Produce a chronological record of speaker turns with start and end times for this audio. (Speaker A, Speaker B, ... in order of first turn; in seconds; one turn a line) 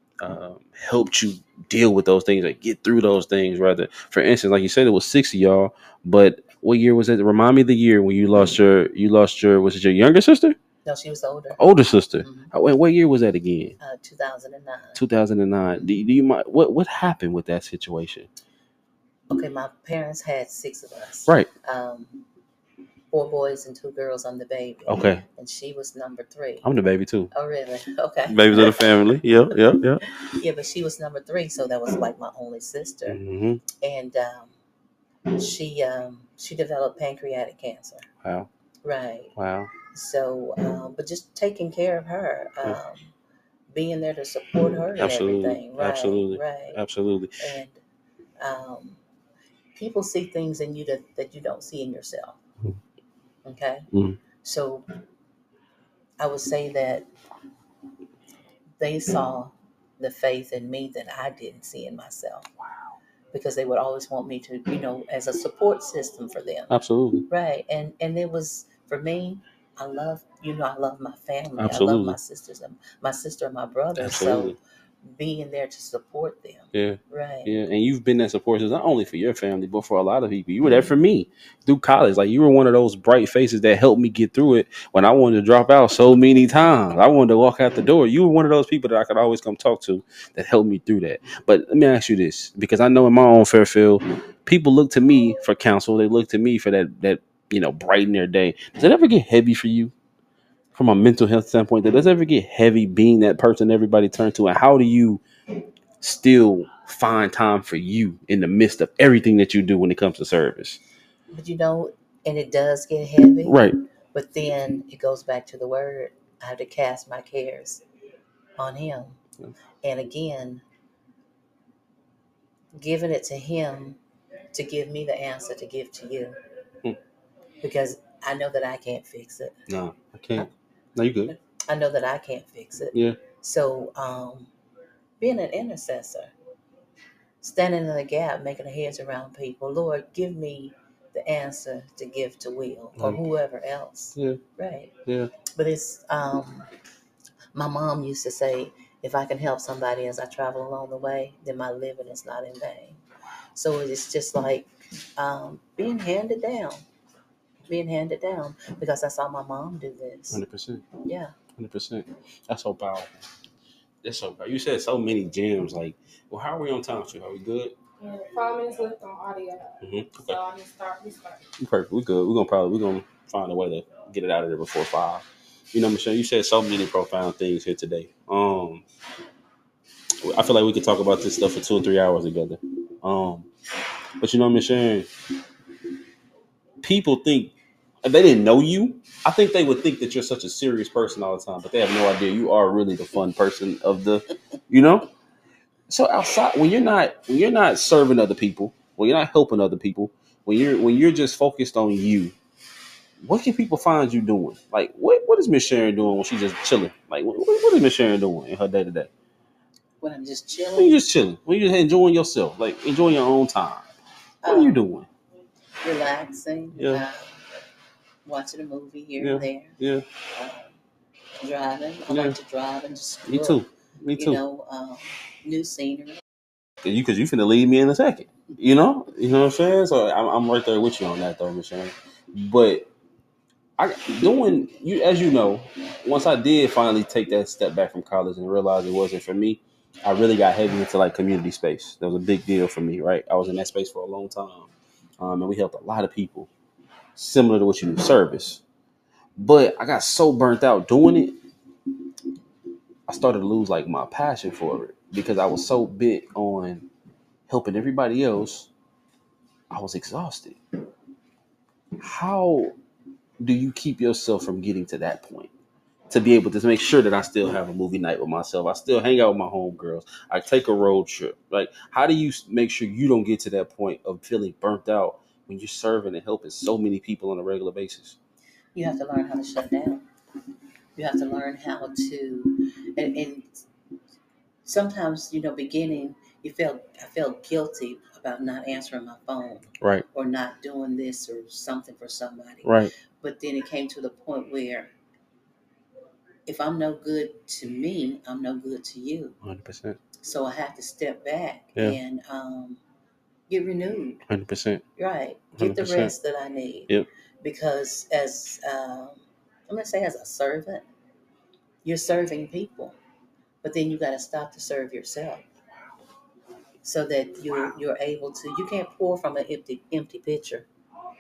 Speaker A: 0.2-10.6
Speaker B: 10.8-11.6
Speaker A: 11.6-13.8
Speaker B: 12.2-12.5
Speaker B: 13.8-15.0
Speaker A: 14.9-18.3
Speaker B: 19.3-22.2
Speaker B: 23.1-26.7
Speaker A: 24.9-25.2
Speaker A: 26.6-27.3
Speaker B: 27.3-33.2
Speaker A: 28.3-30.0
Speaker A: 33.1-33.6
Speaker B: 33.8-34.5
Speaker B: 35.3-38.1
Speaker A: 38.2-38.5
Speaker B: 38.8-39.4
Speaker A: 39.4-39.7
Speaker B: 39.9-43.1
Speaker B: 43.7-46.8
Speaker A: 45.0-47.4
Speaker B: 47.4-47.8
Speaker B: 48.4-49.0
Speaker B: 49.8-52.4
Speaker B: 53.5-53.9
Speaker A: 53.9-54.2
Speaker B: 54.4-54.9
Speaker B: 56.2-57.1
Speaker B: 58.8-62.5
Speaker B: 63.3-66.8
Speaker A: 66.7-67.3
Speaker B: 67.3-77.5
Speaker A: 71.6-72.2
Speaker A: 74.0-74.6
Speaker A: 76.7-99.9
Speaker A: 100.8-105.2
Speaker A: 106.0-110.8
Speaker B: 111.3-113.6
Speaker A: 113.4-113.8
Speaker B: 114.1-117.8
Speaker B: 118.6-119.2
Speaker B: 119.8-120.6
Speaker B: 122.8-124.0
Speaker B: 124.5-126.4
Speaker B: 127.6-129.6
Speaker A: 129.7-131.3
Speaker B: 131.3-134.5
Speaker A: 132.9-133.2
Speaker B: 135.2-136.3
Speaker B: 137.4-144.9
Speaker A: 144.2-144.4
Speaker B: 145.5-146.7
Speaker B: 147.5-153.0
Speaker B: 153.5-156.8
Speaker B: 157.7-160.4
Speaker A: 160.3-160.9
Speaker B: 161.1-161.4
Speaker A: 161.6-163.1
Speaker A: 164.0-167.8
Speaker C: 168.0-171.4
Speaker A: 169.8-170.4
Speaker A: 171.6-178.8
Speaker A: 180.2-183.5
Speaker A: 184.2-185.1
Speaker A: 186.8-195.1
Speaker A: 195.9-202.3
Speaker A: 203.2-209.1
Speaker B: 210.0-211.0
Speaker A: 210.8-213.9
Speaker B: 214.4-214.8
Speaker A: 214.5-215.1
Speaker B: 215.8-217.4
Speaker A: 216.8-217.0
Speaker B: 218.2-219.7
Speaker A: 219.2-220.1
Speaker B: 220.3-220.8
Speaker B: 221.4-226.2
Speaker A: 222.1-222.4
Speaker A: 223.3-224.4
Speaker A: 226.8-232.9
Speaker A: 233.8-246.5
Speaker A: 247.2-248.6
Speaker A: 249.4-251.4
Speaker A: 253.1-256.9
Speaker A: 257.5-258.7
Speaker A: 259.7-260.6
Speaker A: 262.0-262.8
Speaker A: 263.4-265.5
Speaker A: 266.1-278.2
Speaker B: 278.8-280.0
Speaker B: 281.0-283.6
Speaker B: 284.6-294.9
Speaker A: 289.8-290.1
Speaker A: 292.6-292.9
Speaker B: 296.5-299.4
Speaker A: 299.4-300.0
Speaker B: 300.2-302.8
Speaker B: 303.5-304.2
Speaker A: 304.3-304.8
Speaker B: 305.0-310.9
Speaker A: 305.6-306.1
Speaker B: 311.8-313.0
Speaker B: 313.6-315.5
Speaker B: 316.8-320.7